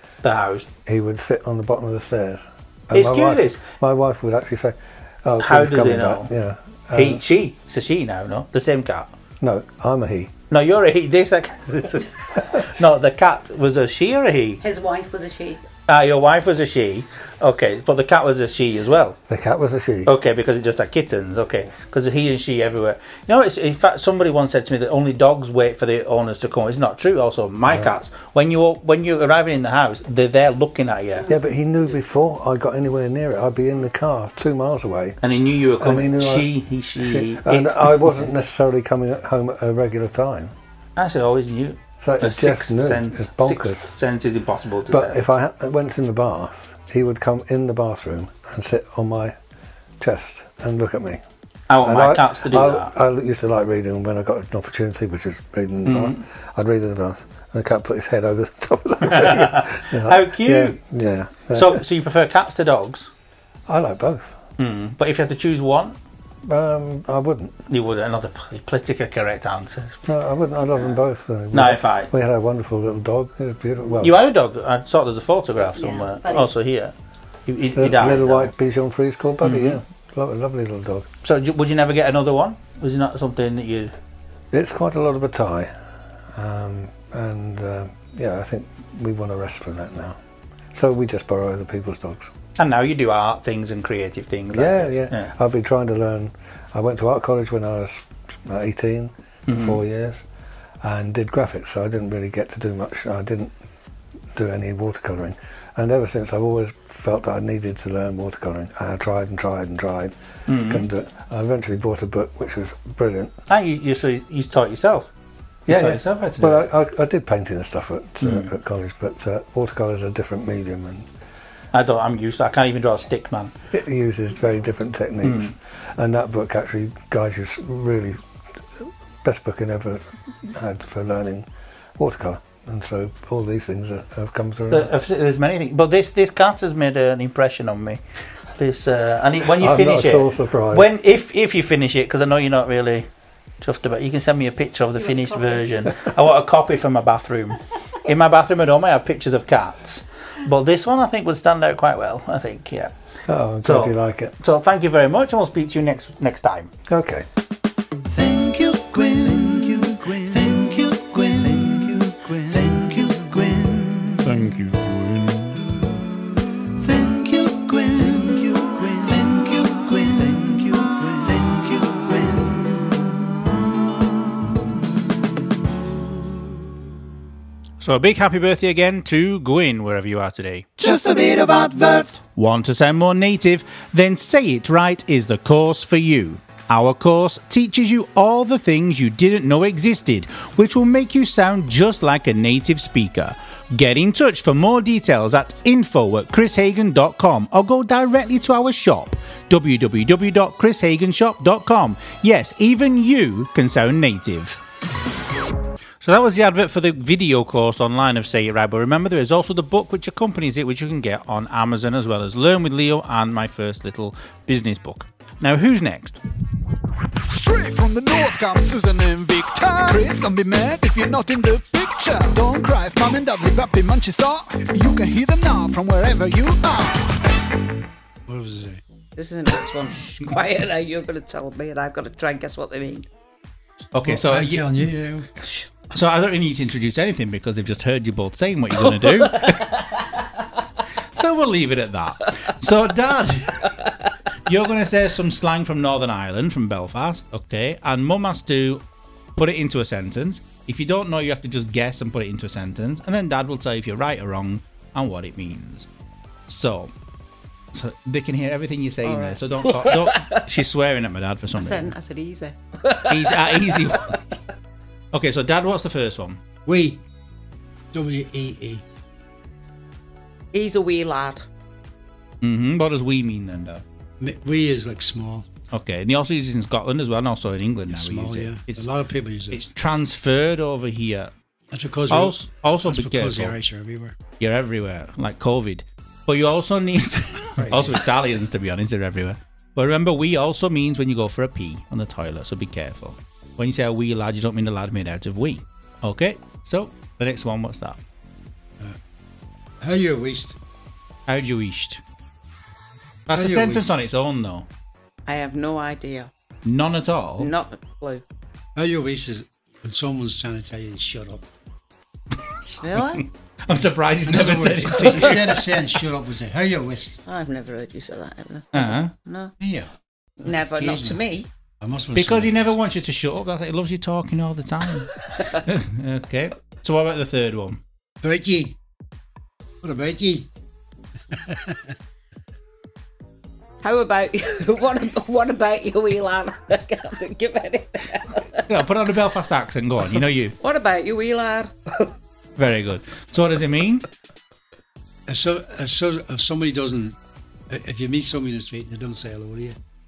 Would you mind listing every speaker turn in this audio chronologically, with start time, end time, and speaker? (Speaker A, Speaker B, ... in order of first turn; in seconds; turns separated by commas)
Speaker A: 0.2-0.7, Speaker B: 0.8-7.2, Speaker A: 2.9-3.6, Speaker A: 5.4-6.3, Speaker A: 6.9-9.1, Speaker B: 9.4-10.3, Speaker A: 10.5-14.6, Speaker C: 14.6-15.6, Speaker A: 15.9-19.2, Speaker B: 19.3-20.1, Speaker A: 20.0-31.3, Speaker B: 27.7-27.9, Speaker B: 31.3-35.2, Speaker A: 35.2-38.3, Speaker B: 35.8-36.5, Speaker B: 37.0-40.5, Speaker A: 41.0-45.2, Speaker B: 42.0-43.9, Speaker B: 44.9-49.3, Speaker B: 50.0-51.2, Speaker A: 51.7-52.9, Speaker B: 51.8-61.8, Speaker A: 55.9-56.2, Speaker A: 59.1-60.8, Speaker A: 61.5-63.1, Speaker B: 63.7-64.3, Speaker A: 64.6-66.0, Speaker B: 66.4-67.5, Speaker A: 67.7-70.0, Speaker B: 70.0-74.2, Speaker A: 71.5-72.1, Speaker A: 74.0-76.9, Speaker C: 75.8-76.4, Speaker A: 77.5-78.5, Speaker B: 77.7-81.1, Speaker A: 79.4-79.8, Speaker A: 81.2-83.9, Speaker B: 84.5-85.7, Speaker B: 86.3-90.2, Speaker B: 90.7-92.3, Speaker A: 92.5-95.3, Speaker B: 94.5-100.2, Speaker A: 99.5-99.8, Speaker B: 100.8-103.5, Speaker B: 104.3-113.3, Speaker A: 110.5-110.9, Speaker A: 113.5-115.1, Speaker B: 115.7-121.0, Speaker A: 115.7-116.7, Speaker A: 118.2-118.5, Speaker A: 121.7-123.5, Speaker B: 123.7-128.2, Speaker A: 125.2-125.5, Speaker B: 128.8-131.5, Speaker B: 132.0-134.9, Speaker A: 134.7-138.0, Speaker A: 138.6-143.1, Speaker B: 139.6-140.9, Speaker A: 143.6-152.9, Speaker B: 153.3-154.3, Speaker A: 153.6-156.7, Speaker B: 156.9-157.2, Speaker D: 158.1-165.6, Speaker C: 158.9-159.6, Speaker C: 161.2-161.8, Speaker C: 162.5-162.7, Speaker D: 166.8-172.5, Speaker C: 166.9-167.5, Speaker C: 171.1-172.4, Speaker A: 177.8-180.7, Speaker C: 180.8-182.0, Speaker D: 180.8-182.1, Speaker A: 182.3-204.6, Speaker A: 206.0-216.2, Speaker D: 217.3-227.1, Speaker E: 228.3-228.8, Speaker C: 229.2-233.1, Speaker A: 233.9-234.8, Speaker E: 234.0-235.3, Speaker A: 235.9-240.1, Speaker A: 241.0-243.9, Speaker A: 244.4-248.8, Speaker A: 249.3-255.9, Speaker A: 256.5-256.9, Speaker A: 257.7-261.9, Speaker C: 259.0-259.6, Speaker C: 261.5-263.5, Speaker A: 263.0-264.4, Speaker A: 265.1-266.4, Speaker E: 266.6-267.0, Speaker E: 267.9-268.8, Speaker C: 270.5-271.5, Speaker A: 272.4-273.8, Speaker E: 274.2-275.4, Speaker A: 275.7-278.9, Speaker E: 277.9-279.6, Speaker A: 279.5-281.3, Speaker E: 281.7-284.2, Speaker A: 282.1-283.6, Speaker A: 284.4-298.0, Speaker E: 287.6-288.0, Speaker E: 299.8-300.6, Speaker A: 301.3-302.0, Speaker A: 303.3-304.7, Speaker E: 303.3-304.0, Speaker C: 305.3-306.3, Speaker A: 306.6-307.5, Speaker C: 307.4-308.2, Speaker E: 308.8-311.4, Speaker A: 312.4-315.7, Speaker C: 312.8-313.2, Speaker E: 314.2-317.2, Speaker C: 317.2-319.5, Speaker A: 318.7-319.1, Speaker E: 319.6-319.9, Speaker C: 320.4-321.5, Speaker E: 320.4-321.2, Speaker E: 321.8-322.7, Speaker A: 322.1-327.8, Speaker E: 328.2-328.8, Speaker E: 329.8-330.5, Speaker E: 331.3-331.9, Speaker C: 333.8-338.6, Speaker A: 338.5-340.6, Speaker C: 340.6-342.1, Speaker A: 342.6-344.0, Speaker E: 345.3-347.2, Speaker E: 347.7-349.8